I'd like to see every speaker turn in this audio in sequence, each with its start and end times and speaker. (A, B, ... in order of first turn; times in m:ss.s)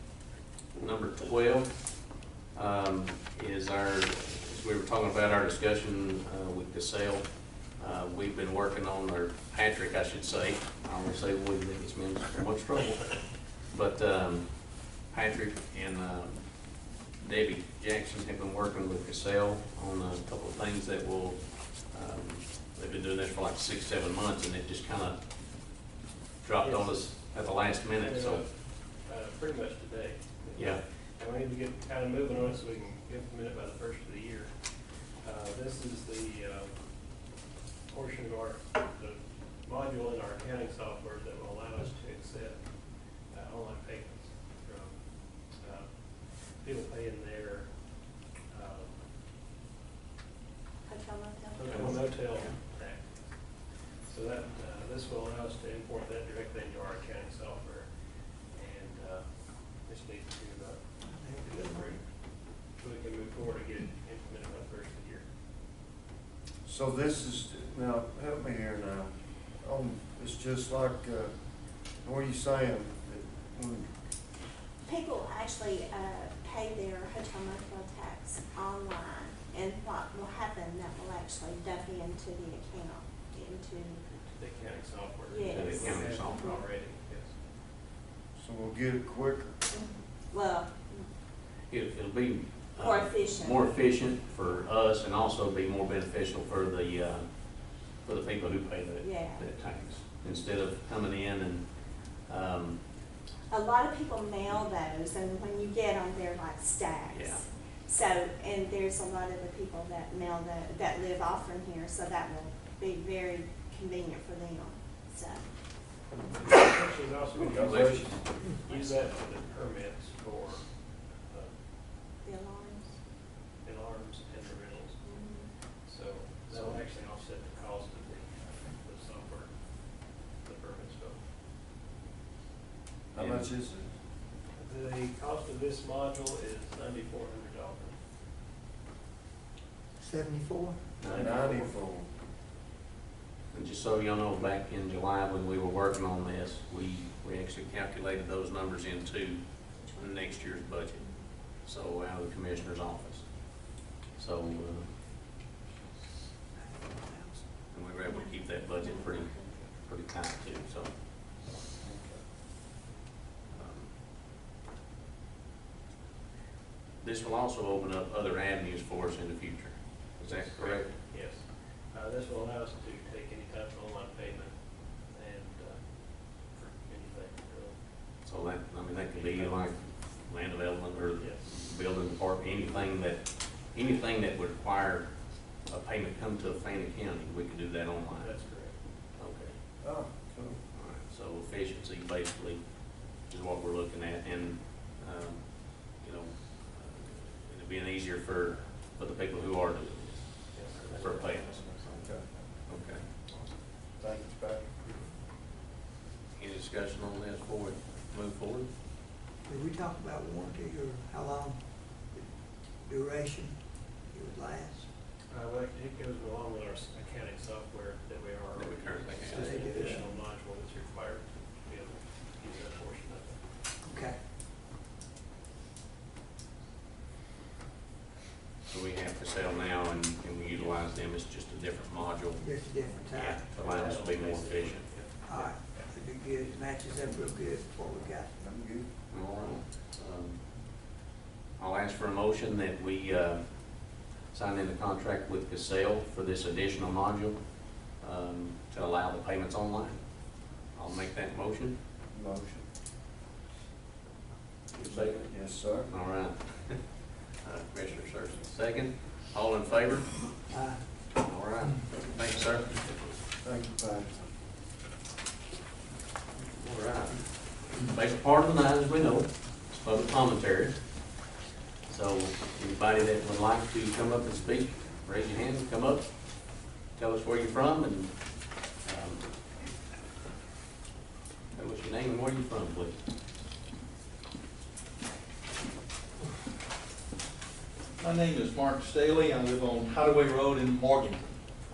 0:00.8-0:25.2 A
0:26.4-0:28.4 A
0:26.6-0:27.2 B
0:28.0-0:36.7 B
0:30.6-0:30.8 A
0:37.9-0:42.6 B
0:43.3-0:45.0 B
0:45.5-0:45.9 B
0:46.5-0:47.8 B
0:48.5-0:49.0 B
0:50.9-0:52.5 C
0:51.6-0:57.9 B
0:51.6-0:51.9 A
0:58.5-1:00.8 B
1:01.0-1:02.0 D
1:01.4-1:02.0 B
1:02.7-1:05.2 B
1:06.6-1:11.3 E
1:11.8-1:13.9 E
1:14.9-1:24.0 C
1:24.0-1:27.4 B
1:25.3-1:26.6 C
1:25.5-1:26.5 A
1:28.4-1:29.6 E
1:29.7-1:31.1 C
1:31.7-1:42.8 A
1:32.8-1:33.6 C
1:39.0-1:39.4 C
1:43.5-1:55.4 C
1:47.1-1:47.4 A
1:56.3-2:01.5 B
1:57.4-1:58.2 E
1:57.6-1:58.2 A
1:58.7-1:59.1 A
2:02.2-2:03.0 C
2:03.6-2:11.2 B
2:05.0-2:05.5 C
2:06.5-2:06.8 A
2:13.1-2:13.9 E
2:13.2-2:13.5 A
2:14.6-2:18.0 B
2:20.0-2:20.9 D
2:21.0-2:21.8 B
2:21.0-2:22.1 E
2:23.5-2:34.9 A
2:29.9-2:30.4 C
2:36.6-2:37.4 D
2:37.7-2:40.9 A
2:38.1-2:39.5 C
2:41.8-2:42.2 E
2:43.5-2:43.9 A
2:47.0-2:50.9 A
2:50.2-2:57.8 B
2:58.2-3:08.3 A
2:59.1-2:59.6 B
3:01.2-3:01.5 B
3:08.2-3:08.8 B
3:09.2-3:09.6 A
3:09.8-3:10.6 E
3:10.7-3:22.1 A
3:20.5-3:21.8 B
3:21.0-3:22.5 E
3:22.7-3:23.6 A
3:24.0-3:24.7 E
3:26.4-3:28.7 A
3:29.4-3:32.3 D
3:32.8-3:34.9 D
3:35.3-3:43.4 B
3:38.6-3:39.6 A
3:39.3-3:40.1 D
3:43.8-3:44.2 D
3:48.7-3:52.6 A
3:50.5-3:50.8 B
3:52.4-3:53.4 D
3:53.1-3:55.5 B
3:53.5-3:54.9 A
3:55.2-3:58.3 D
3:58.4-3:58.9 E
3:59.1-4:00.4 A
4:01.6-4:11.8 A
4:12.1-4:12.7 E
4:14.7-4:20.3 A
4:14.8-4:15.9 E
4:20.5-4:20.8 D
4:21.2-4:22.8 A
4:23.4-4:24.2 E
4:26.4-4:30.8 A
4:31.9-4:39.2 A
4:41.5-4:43.0 A
4:48.0-4:51.4 F